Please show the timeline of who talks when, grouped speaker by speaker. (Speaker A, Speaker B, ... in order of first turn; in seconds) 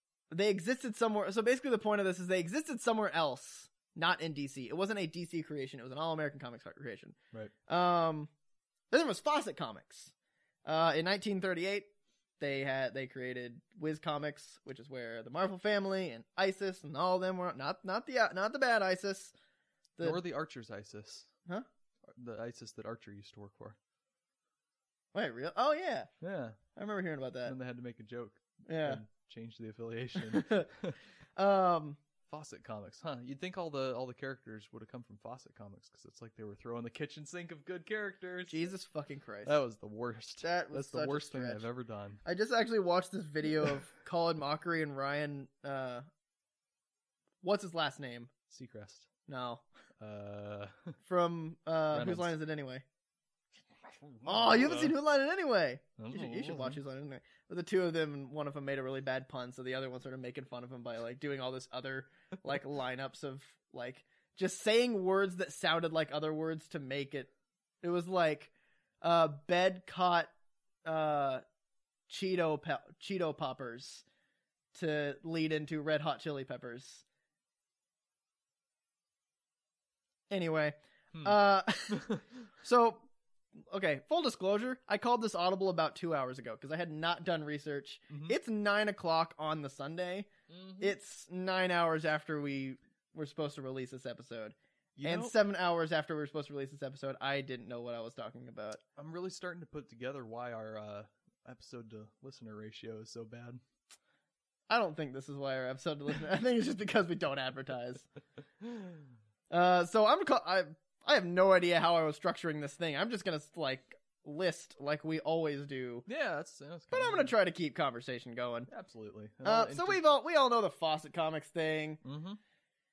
Speaker A: 0.3-7.2, 7.7-8.3, 8.9-10.1, 10.6-11.9, 12.4-19.3, 20.0-20.2, 25.1-26.1, 26.7-27.5, 28.6-29.0, 30.1-30.7, 31.4-32.0, 38.5-39.6, 40.4-41.6, 42.2-46.0, 47.4-48.3, 49.3-49.6, 51.0-52.8, 54.2-67.3, 67.8-70.3, 70.8-71.4, 72.1-74.0, 74.7-77.0, 80.3-90.3, 90.8-98.8, 104.7-108.1, 109.5-116.1, 116.9-118.7, 119.4-122.0
Speaker B: 20.0-21.3, 22.0-23.8, 26.2-26.6, 27.4-31.0, 32.3-38.7, 39.4-42.2, 48.5-49.1, 50.0-50.9, 51.9-52.3, 54.0-55.0, 56.0-56.8, 81.1-82.2, 88.1-88.3, 90.5-90.9, 95.0-95.3, 99.0-103.6, 108.6-109.0, 116.1-117.3, 118.7-120.0, 122.0-122.4